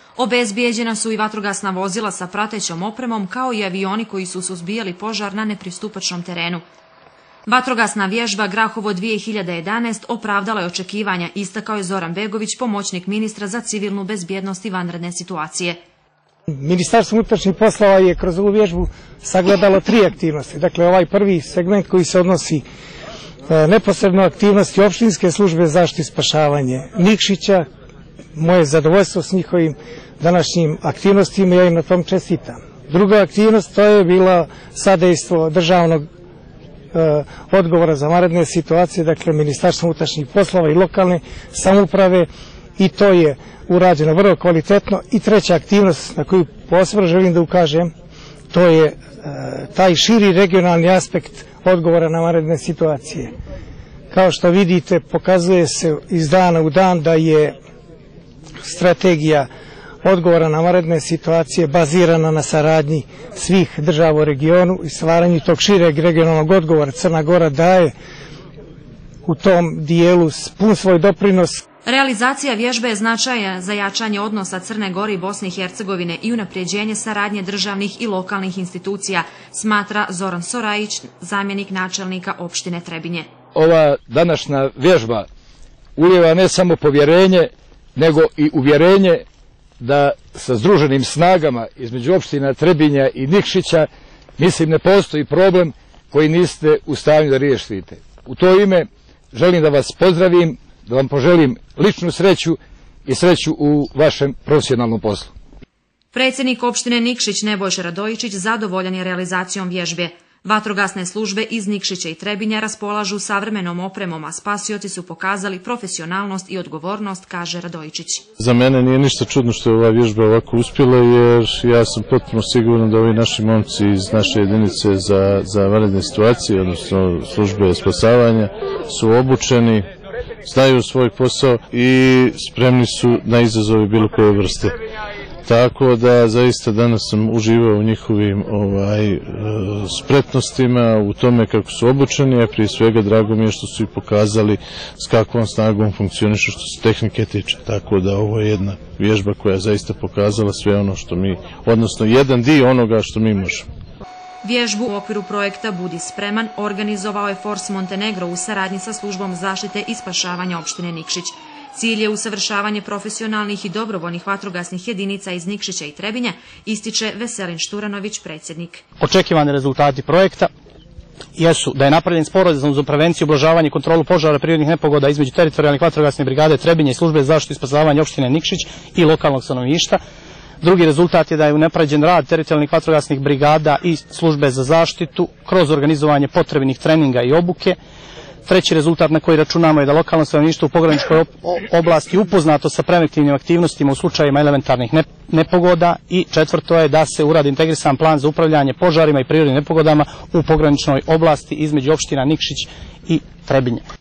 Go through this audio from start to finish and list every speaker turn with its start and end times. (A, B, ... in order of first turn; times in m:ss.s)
0:00.2-0:06.6 A
0:07.4-0:15.8 A
0:16.5-0:22.6 B
0:23.5-0:27.6 B
0:28.3-0:36.0 B
0:36.9-0:47.9 B
0:48.5-0:53.3 B
0:54.1-0:57.5 B
0:58.6-0:59.5 B
1:00.0-1:07.9 B
1:09.2-1:11.6 B
1:11.8-1:23.3 A
1:23.6-1:25.2 C
1:26.0-1:29.2 C
1:29.8-1:33.9 C
1:34.4-1:42.6 C
1:43.1-1:45.3 C
1:46.1-1:58.2 A
1:58.4-2:09.9 D
2:10.4-2:14.8 D
2:15.4-2:33.6 D
2:34.4-2:48.8 A
2:49.0-2:50.5 E
2:51.4-3:00.0 E
3:00.6-3:07.8 E
3:08.4-3:23.8 E